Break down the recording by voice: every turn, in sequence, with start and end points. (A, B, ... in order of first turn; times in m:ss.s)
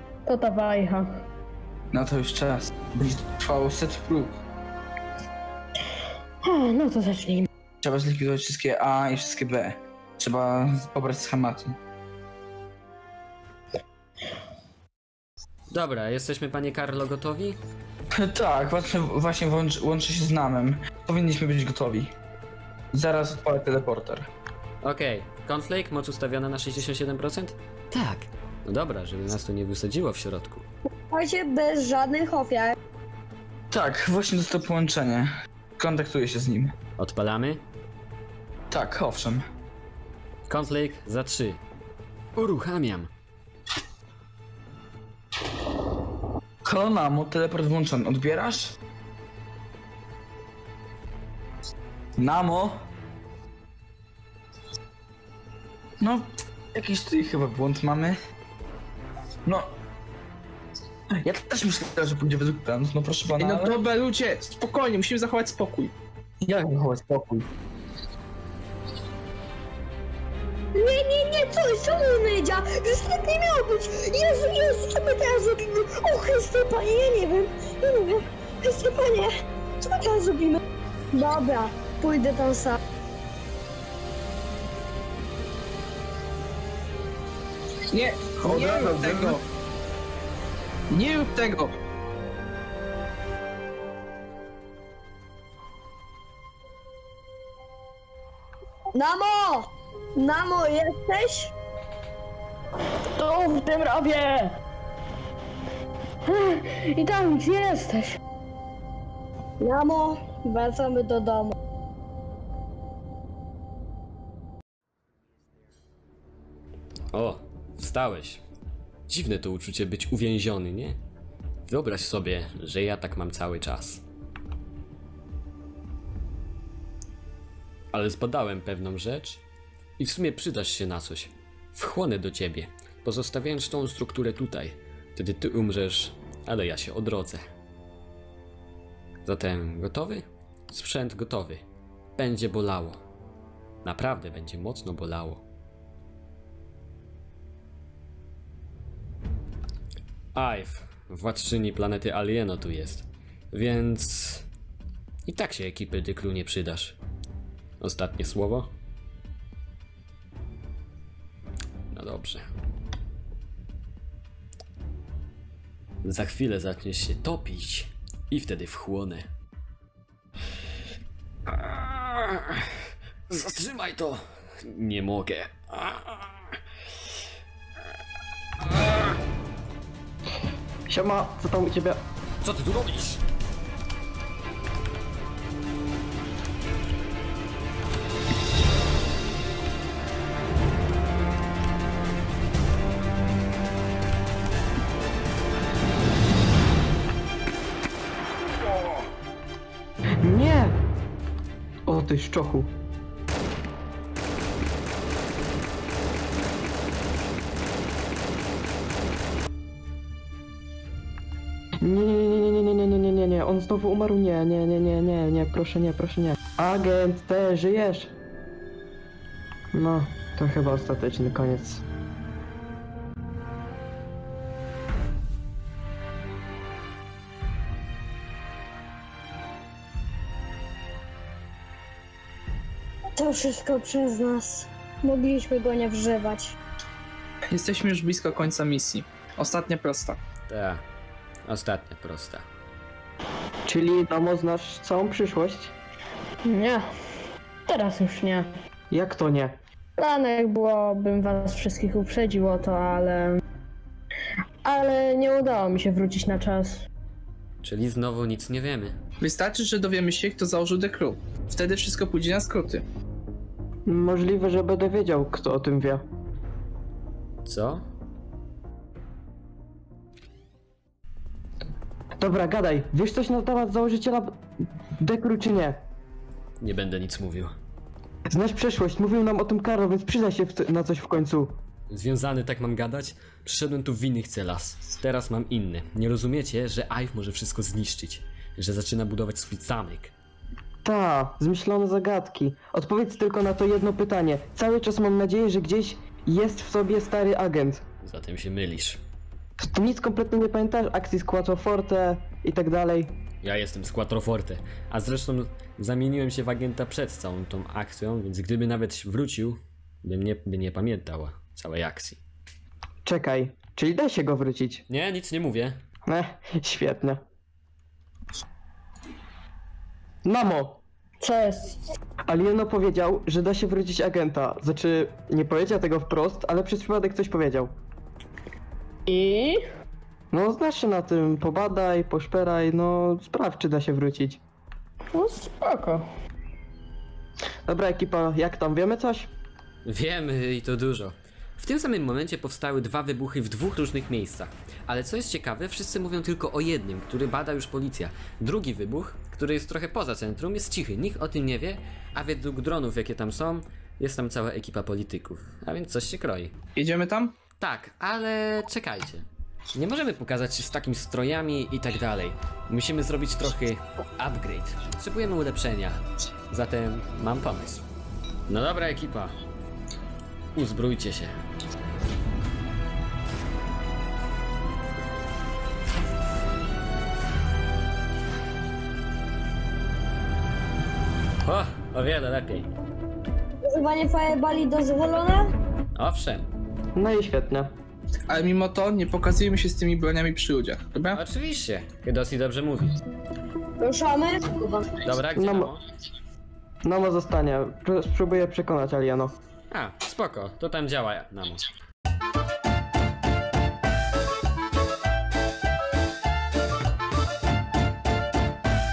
0:00.2-0:01.1 A
0:01.9-0:04.3 B
0:06.4-0:07.5 A
0:07.8-0:11.8 B
0:15.7-0:17.6 C
0:18.1-0:22.1 B
0:22.9-0:24.3 B
0:24.8-0:30.6 C
0:31.1-0:32.7 D
0:33.7-0:36.7 B
0:37.0-0:37.6 C
0:38.7-0:39.4 B
0:40.5-0:41.6 C
0:42.4-0:43.1 C
0:46.6-0:48.7 B
0:52.2-0:52.8 B
0:56.0-0:58.2 B
0:59.4-0:59.7 B
1:01.2-1:03.8 B
1:03.4-1:05.9 E
1:06.4-1:07.4 B
1:10.7-1:19.3 D
1:19.8-1:20.6 D
1:21.1-1:22.8 D
1:27.9-1:29.4 E
1:28.4-1:29.4 B
1:30.9-1:31.8 E
1:38.9-1:41.5 D
1:43.2-1:44.5 A
1:46.2-1:48.2 A
1:49.6-1:51.5 D
1:57.1-1:58.4 C
1:59.1-2:01.0 C
2:01.7-2:04.0 C
2:07.9-2:09.4 C
2:10.0-2:17.4 C
2:19.2-2:21.6 C
2:22.2-2:23.0 C
2:23.8-2:25.4 C
2:30.3-2:34.5 C
2:35.2-2:37.0 C
2:37.8-2:38.7 C
2:41.9-2:42.4 C
2:46.0-2:49.3 C
2:51.5-2:52.7 C
2:53.3-2:56.5 C
3:00.9-3:02.0 F
3:02.4-3:03.2 C
3:20.2-3:20.8 F
3:21.9-3:22.7 F
3:31.8-3:38.1 F
3:39.7-3:41.8 F
3:53.2-3:56.6 D
3:57.5-4:00.2 E
4:00.5-4:00.8 C
4:01.4-4:02.4 C
4:03.6-4:05.7 F
4:06.4-4:06.8 A
4:07.7-4:08.5 A
4:08.9-4:09.6 F
4:10.0-4:13.4 A
4:14.6-4:16.8 A
4:17.6-4:19.0 C
4:19.2-4:22.8 E
4:23.9-4:26.0 F
4:27.4-4:27.8 C
4:32.2-4:34.4 F
4:35.0-4:35.8 F
4:36.6-4:37.5 C
4:38.3-4:41.6 F
4:41.9-4:50.1 C
4:50.8-4:57.8 F
4:58.0-4:59.0 C
4:59.6-5:03.1 F
5:03.4-5:12.2 C
5:13.0-5:14.8 F
5:14.9-5:15.8 C
5:16.1-5:17.2 F
5:20.2-5:20.8 F
5:21.2-5:21.8 A
5:22.3-5:27.7 F
5:29.1-5:29.6 A
5:30.3-5:34.4 F
5:35.1-5:36.0 A
5:37.7-5:39.3 F
5:39.8-5:56.5 C
5:56.7-5:57.3 E
5:57.6-6:07.8 C
6:08.5-6:09.4 C
6:10.5-6:11.3 C
6:21.4-6:22.7 C
6:23.6-6:25.4 D
6:25.9-6:26.5 C
6:27.0-6:27.7 F
6:28.3-6:31.2 E
6:31.1-6:33.0 C
6:33.8-6:35.0 D
6:35.0-6:35.8 C
6:35.3-6:35.7 F
6:36.8-6:39.3 F
6:39.7-6:41.6 C